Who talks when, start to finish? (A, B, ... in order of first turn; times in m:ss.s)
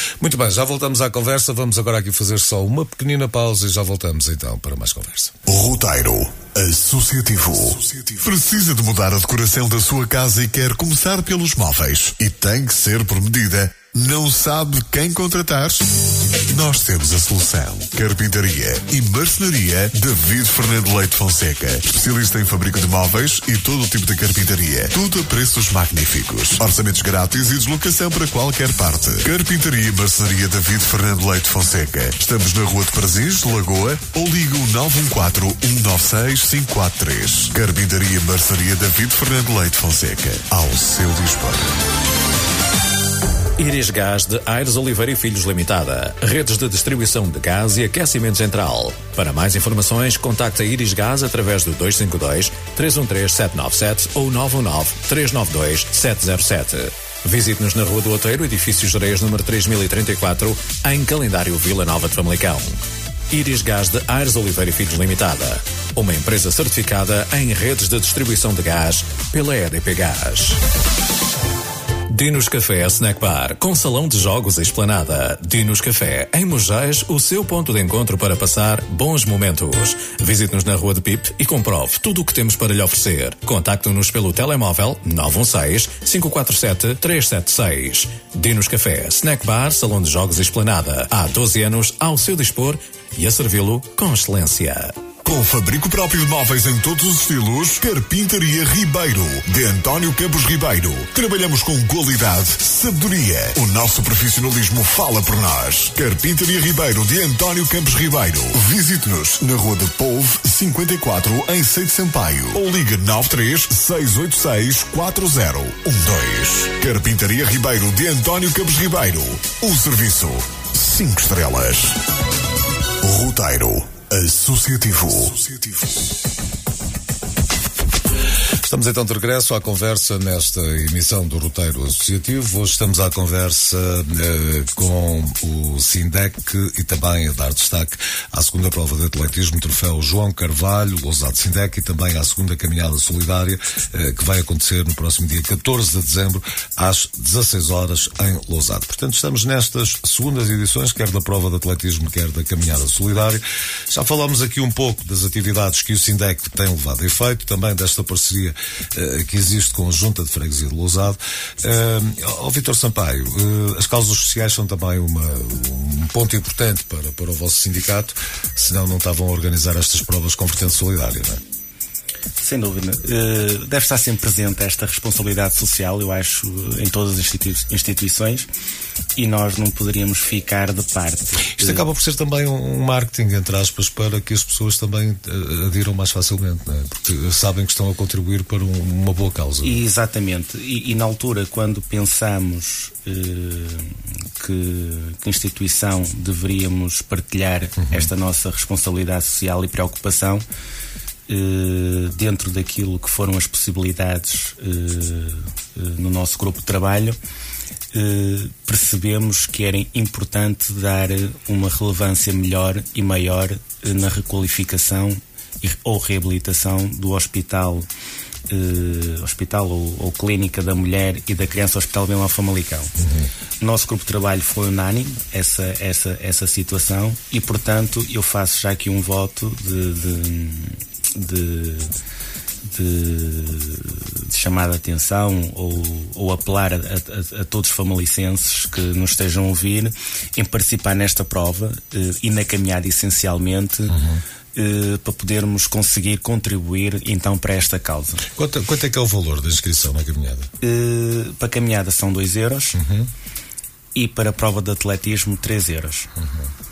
0:00.2-0:05.3 A
0:05.4-0:41.8 B
0:43.6-1:10.6 C
1:12.1-1:35.0 C
1:35.2-2:02.0 B
2:03.0-2:06.1 B
2:08.6-2:51.4 A
2:52.4-2:58.5 D
2:59.2-3:01.8 D
3:01.5-3:09.8 A
3:09.6-3:20.4 D
3:17.8-3:18.1 A
3:21.3-3:27.2 D
3:27.9-3:37.9 D
3:38.5-3:42.9 D
3:43.0-3:43.3 A
3:43.6-3:51.9 D
3:52.6-4:03.9 D
4:03.9-4:04.2 A
4:04.5-4:08.2 D
4:08.3-4:10.5 A
4:10.6-4:12.8 D
4:12.7-4:13.1 A
4:13.9-4:16.1 D
4:16.2-4:16.5 A